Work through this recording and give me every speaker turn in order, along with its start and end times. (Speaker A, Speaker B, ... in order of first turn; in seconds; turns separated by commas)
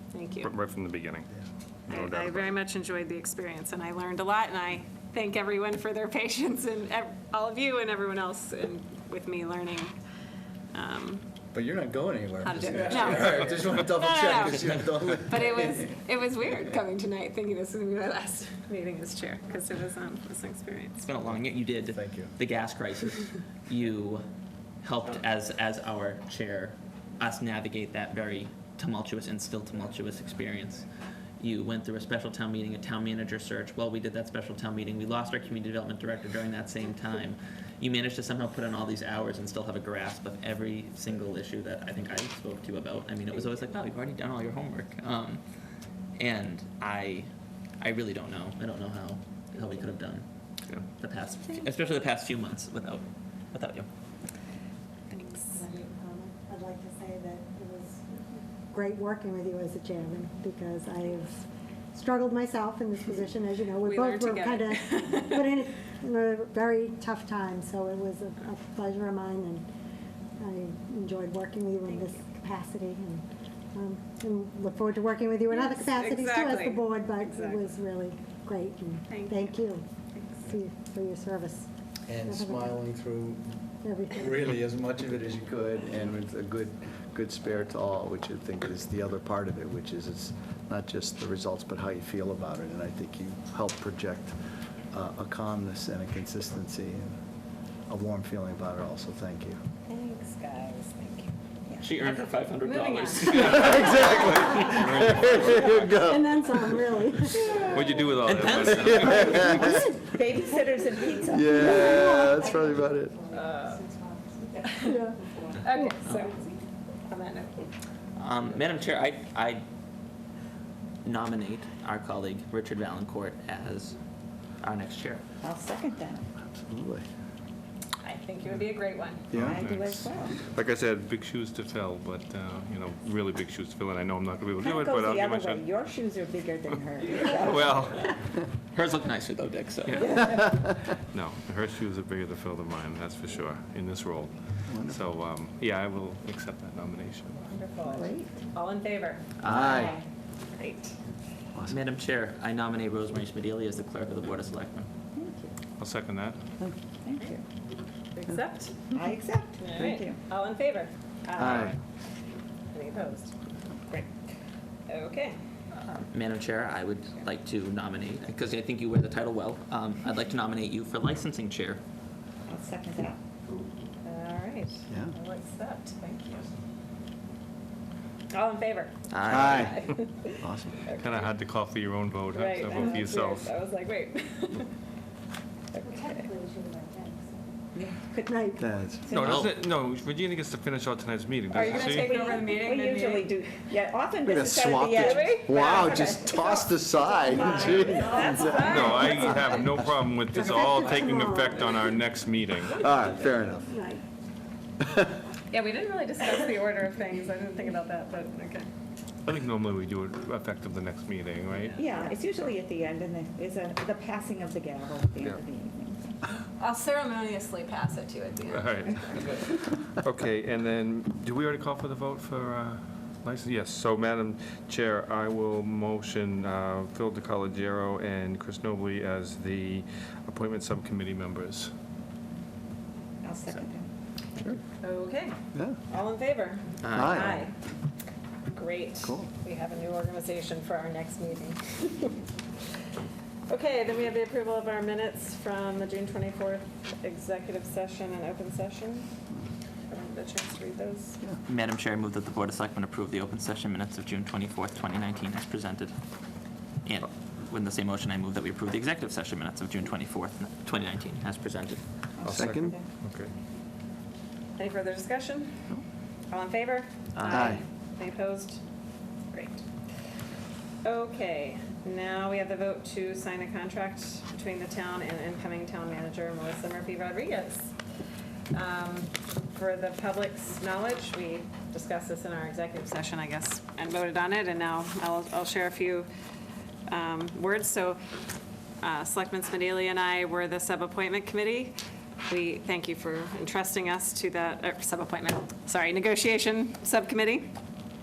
Speaker A: 0.1-0.5, Speaker B: 0.4-1.3, Speaker B: 1.9-2.5, Speaker A: 1.9-9.9, Speaker A: 10.7-11.2, Speaker C: 11.5-15.9, Speaker A: 12.4-21.0, Speaker D: 14.4-15.3, Speaker D: 21.0-24.3, Speaker C: 21.7-22.3, Speaker D: 24.8-30.9, Speaker D: 31.4-45.4, Speaker D: 46.2-47.3, Speaker D: 47.8-50.2, Speaker D: 50.9-53.9, Speaker A: 55.1-55.6, Speaker E: 55.4-69.7, Speaker A: 63.8-65.6, Speaker E: 70.4-79.8, Speaker A: 71.8-72.2, Speaker A: 75.5-77.8, Speaker A: 79.1-79.6, Speaker A: 80.1-80.5, Speaker E: 80.5-81.7, Speaker C: 82.1-83.6, Speaker E: 82.2-82.9, Speaker E: 83.8-84.4, Speaker C: 84.2-94.3, Speaker C: 94.9-97.2, Speaker C: 97.9-99.6, Speaker A: 99.9-101.3, Speaker F: 101.7-101.9, Speaker D: 101.8-104.2, Speaker A: 102.7-103.8, Speaker B: 103.2-106.3, Speaker C: 103.3-106.3, Speaker E: 106.0-107.6, Speaker B: 107.4-109.8, Speaker D: 107.5-109.7, Speaker F: 107.7-108.0, Speaker C: 108.7-109.9, Speaker E: 109.6-111.1, Speaker F: 110.0-112.9, Speaker C: 111.3-113.1, Speaker E: 111.7-112.5, Speaker A: 113.3-113.9, Speaker E: 113.4-114.1, Speaker F: 114.5-114.8, Speaker A: 114.6-116.5, Speaker E: 114.8-116.0, Speaker D: 116.0-116.3, Speaker A: 117.1-117.7, Speaker D: 118.2-119.6, Speaker D: 121.0-124.0, Speaker D: 124.6-125.2, Speaker F: 125.4-126.3, Speaker C: 126.4-127.0, Speaker A: 128.0-129.2, Speaker C: 129.3-129.6, Speaker F: 129.3-130.4, Speaker B: 129.3-135.6, Speaker F: 134.6-137.9, Speaker B: 136.7-138.1, Speaker D: 138.7-140.3, Speaker B: 139.8-140.2, Speaker F: 140.0-140.5, Speaker C: 140.4-140.6, Speaker B: 141.1-147.4, Speaker C: 144.7-145.0, Speaker A: 147.3-149.2, Speaker F: 147.9-148.3, Speaker D: 149.4-149.8, Speaker C: 149.4-150.0, Speaker F: 149.5-150.1, Speaker A: 150.5-150.9, Speaker D: 151.7-154.9, Speaker F: 155.1-155.6, Speaker B: 155.8-156.4, Speaker F: 157.0-157.4, Speaker A: 158.1-158.7, Speaker F: 158.9-160.2, Speaker A: 159.6-161.7, Speaker C: 161.4-161.7, Speaker A: 162.7-163.3, Speaker F: 163.9-164.1, Speaker A: 164.9-165.4, Speaker D: 165.8-171.8, Speaker F: 172.5-173.2, Speaker A: 174.0-176.5, Speaker C: 174.9-175.1, Speaker A: 178.3-181.4, Speaker D: 179.1-179.8, Speaker C: 179.3-180.8, Speaker B: 180.9-183.5, Speaker A: 182.3-184.7, Speaker A: 185.7-186.3, Speaker E: 185.8-187.4, Speaker F: 187.7-188.7, Speaker E: 188.2-188.6, Speaker C: 188.6-189.1, Speaker B: 189.1-192.1, Speaker D: 189.1-189.5, Speaker A: 191.5-193.3, Speaker F: 191.6-196.6, Speaker C: 194.2-198.9, Speaker A: 194.9-199.5, Speaker F: 197.2-199.6, Speaker B: 198.5-202.8, Speaker E: 200.5-201.6, Speaker C: 202.8-203.7, Speaker E: 203.7-204.0, Speaker A: 205.5-208.7, Speaker B: 209.2-211.8, Speaker A: 211.6-212.1, Speaker F: 211.8-216.2, Speaker A: 216.6-219.4, Speaker B: 218.5-231.7, Speaker F: 233.2-233.9, Speaker A: 234.8-235.3, Speaker A: 235.9-237.5, Speaker D: 236.8-237.4, Speaker C: 236.9-237.4, Speaker A: 238.5-242.2, Speaker C: 239.0-239.3, Speaker A: 243.5-249.1, Speaker A: 249.9-251.2, Speaker D: 251.4-255.9, Speaker D: 256.8-261.8, Speaker F: 262.2-262.9, Speaker B: 262.2-263.3, Speaker C: 262.3-262.7, Speaker A: 264.6-265.7, Speaker A: 266.3-268.6, Speaker D: 267.1-267.6, Speaker C: 267.3-267.6, Speaker A: 269.3-269.6, Speaker A: 270.8-277.7, Speaker A: 278.5-286.1, Speaker A: 286.9-288.0, Speaker A: 288.8-291.8, Speaker A: 292.3-297.5